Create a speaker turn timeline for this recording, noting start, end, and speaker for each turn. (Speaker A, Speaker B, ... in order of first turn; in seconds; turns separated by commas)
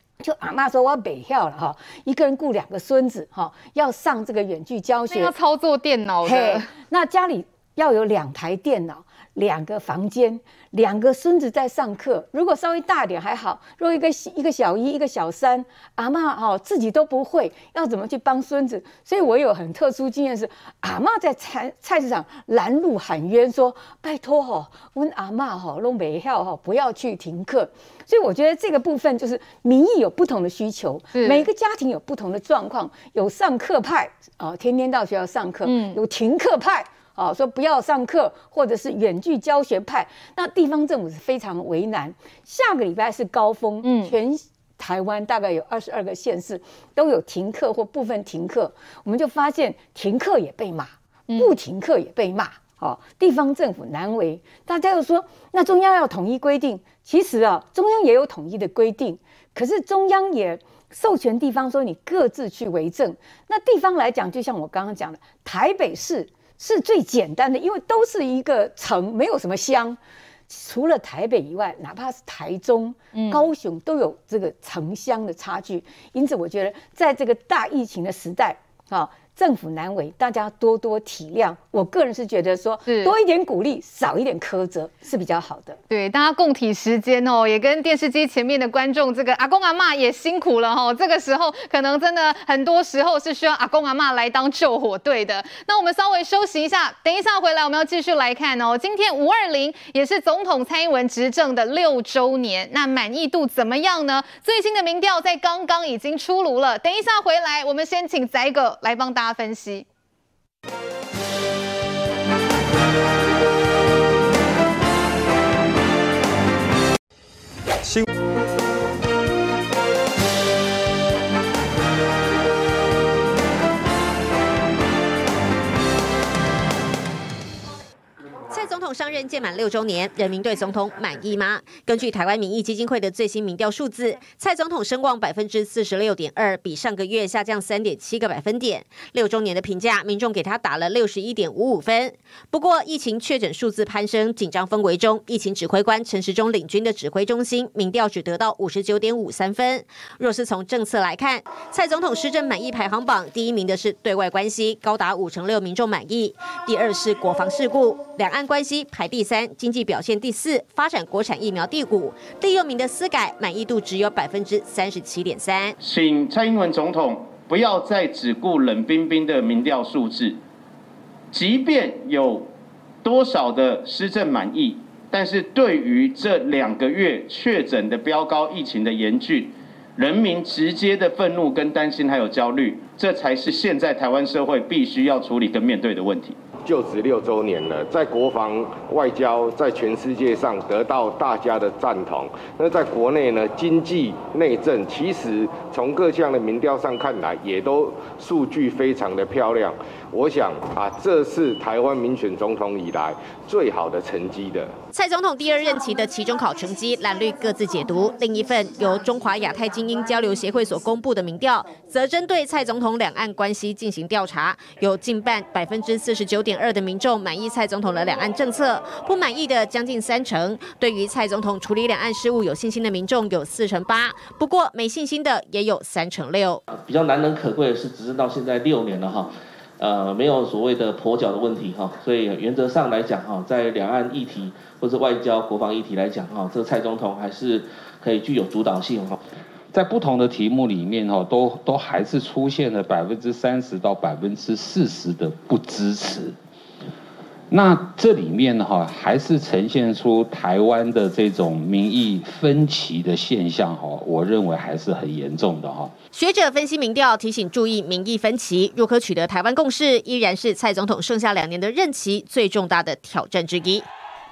Speaker A: 0.2-5.3, Speaker B: 5.1-6.7, Speaker A: 6.2-85.8, Speaker B: 31.1-31.5, Speaker B: 35.6-36.0, Speaker B: 43.8-44.1, Speaker B: 51.3-51.5, Speaker B: 73.1-73.5, Speaker B: 82.8-83.1, Speaker B: 85.9-109.8, Speaker C: 128.5-165.7, Speaker D: 165.8-170.4, Speaker D: 171.3-172.5, Speaker D: 173.0-186.4, Speaker E: 186.6-204.7, Speaker C: 204.9-226.6, Speaker F: 226.7-239.2, Speaker G: 239.7-246.4, Speaker G: 247.5-255.9, Speaker C: 256.1-263.9